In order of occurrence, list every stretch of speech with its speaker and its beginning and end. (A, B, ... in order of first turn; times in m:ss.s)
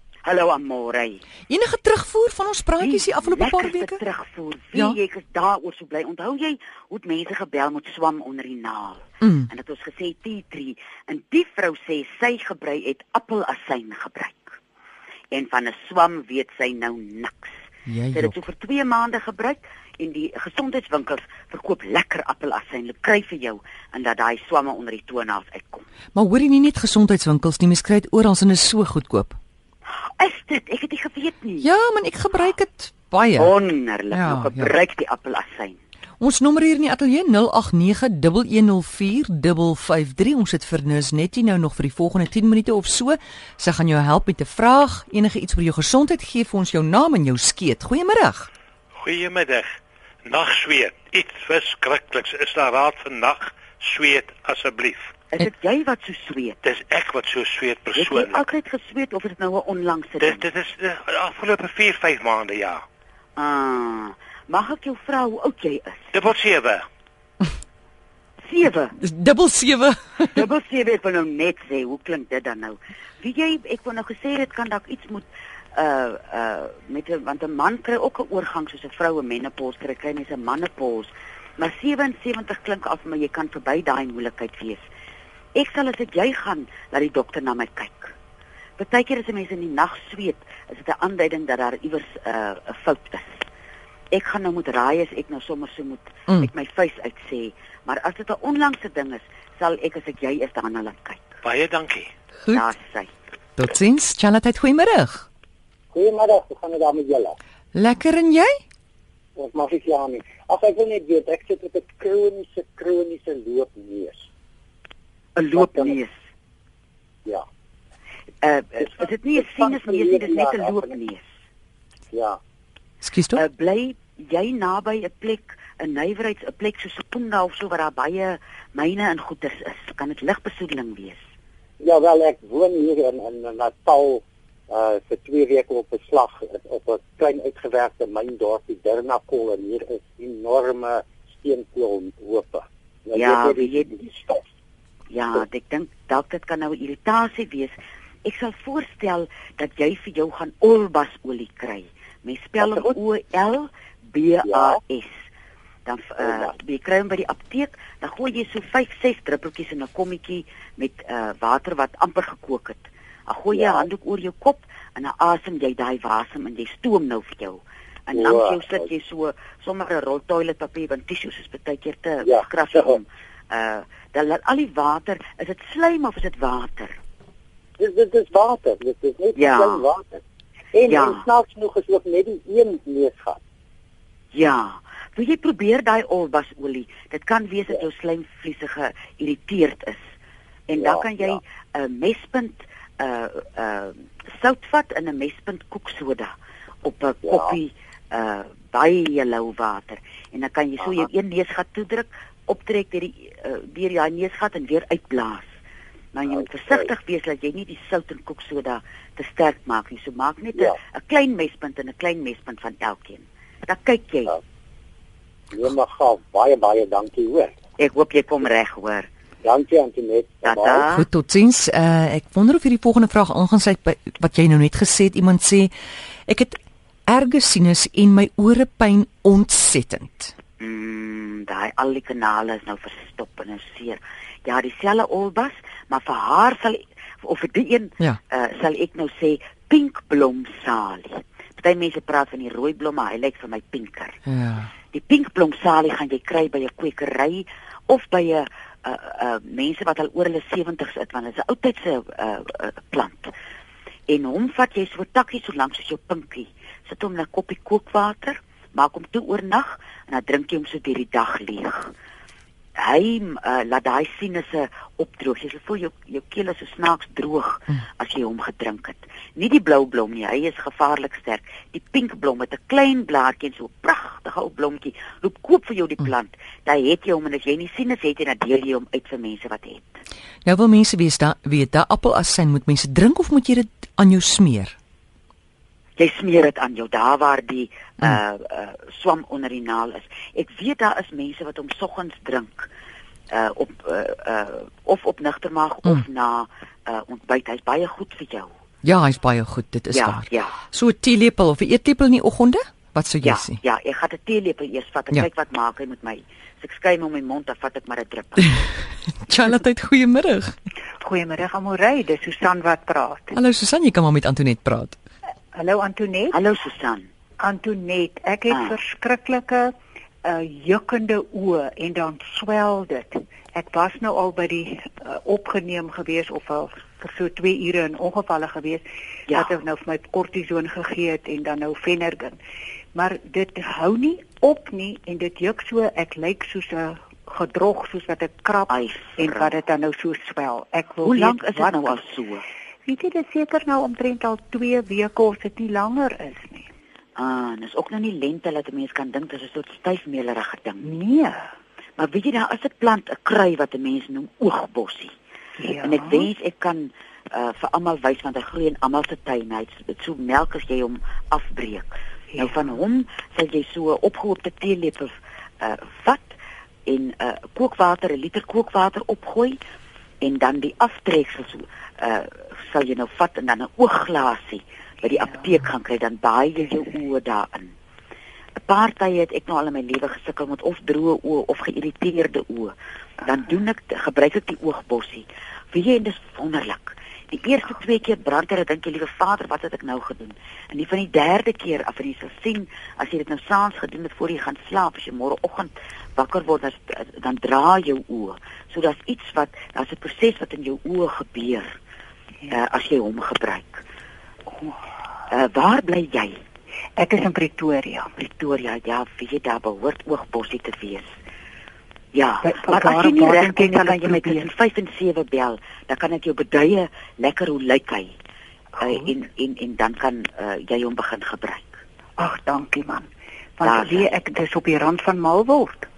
0:00.2-0:01.2 A
0:01.5-0:04.0 B
0:02.8-0:14.6 A
0:09.2-0:09.5 B
0:15.3-0:25.8 A
0:17.9-0:18.4 B
0:26.1-0:29.4 B
0:30.0-0:31.7 A
0:31.6-0:33.5 B
0:33.4-0:35.8 A
0:34.1-0:34.7 B
0:36.2-0:48.5 B
0:49.0-0:55.1 C
0:55.3-0:56.6 A
0:56.6-0:58.5 C
0:57.9-1:00.5 A
1:00.2-1:02.8 C
1:03.4-1:06.1 A
1:06.1-1:06.8 C
1:08.4-1:08.9 A
1:09.0-1:10.4 B
1:10.3-1:24.8 A
1:25.5-1:28.1 A
1:28.8-1:33.4 A
1:34.1-1:41.4 A
1:41.4-1:42.1 C
1:42.4-1:42.7 B
1:42.5-1:43.1 A
1:43.6-1:45.3 B
1:45.9-1:47.4 D
1:47.7-1:48.6 B
1:49.4-1:54.2 D
1:55.4-1:56.1 A
1:55.5-1:56.0 D
1:58.4-2:01.2 A
1:59.4-2:00.9 D
2:02.1-2:02.4 D
2:03.0-2:03.4 B
2:03.3-2:11.2 A
2:11.8-2:24.4 D
2:23.1-2:23.9 A
2:25.1-2:35.2 A
2:32.6-2:32.9 D
2:34.5-2:34.8 D
2:35.8-2:57.0 A
2:43.5-2:43.9 D
2:48.1-2:48.8 D
2:52.2-2:53.0 D
2:57.8-3:00.2 D
2:59.4-2:59.9 A
3:00.7-3:03.4 D
3:00.9-3:01.2 A
3:04.3-3:10.0 A
3:10.7-3:25.5 A
3:10.8-3:11.4 D
3:17.3-3:17.5 D
3:26.1-3:34.4 A
3:35.5-3:37.5 D
3:37.8-3:39.1 A
3:39.4-3:40.9 D
3:40.4-3:41.0 A
3:40.9-3:45.7 B
3:46.3-3:50.3 B
3:50.6-4:04.2 A
4:04.3-4:04.7 B
4:04.9-4:13.3 A
4:14.1-4:21.9 A
4:22.8-4:40.0 A
4:40.4-4:44.8 B
4:46.0-4:52.7 A
4:53.3-4:58.5 A
4:58.8-5:03.6 B
4:59.9-5:00.6 A
5:03.2-5:08.5 A
5:09.2-5:10.6 B
5:11.0-5:13.3 E
5:13.3-5:15.0 B
5:15.5-5:16.4 E
5:16.3-5:17.1 A
5:17.4-5:19.7 E
5:18.5-5:18.8 A
5:20.2-5:32.4 E
5:32.9-5:42.0 E
5:38.7-5:39.6 A
5:41.0-5:42.4 A
5:42.8-5:46.7 E
5:47.2-5:50.8 A
5:50.8-5:51.5 E
5:52.0-5:55.1 A
5:55.6-5:56.3 E
5:55.8-6:06.4 A
6:06.9-6:09.6 A
6:10.2-6:17.7 A
6:18.7-6:41.7 A
6:42.5-6:43.8 A
6:45.3-6:46.4 A
6:47.0-6:48.1 E
6:48.2-6:51.1 A
6:52.1-6:58.1 A
6:52.4-6:54.5 E
6:58.8-7:01.8 A
7:02.2-7:05.9 E
7:03.6-7:04.1 A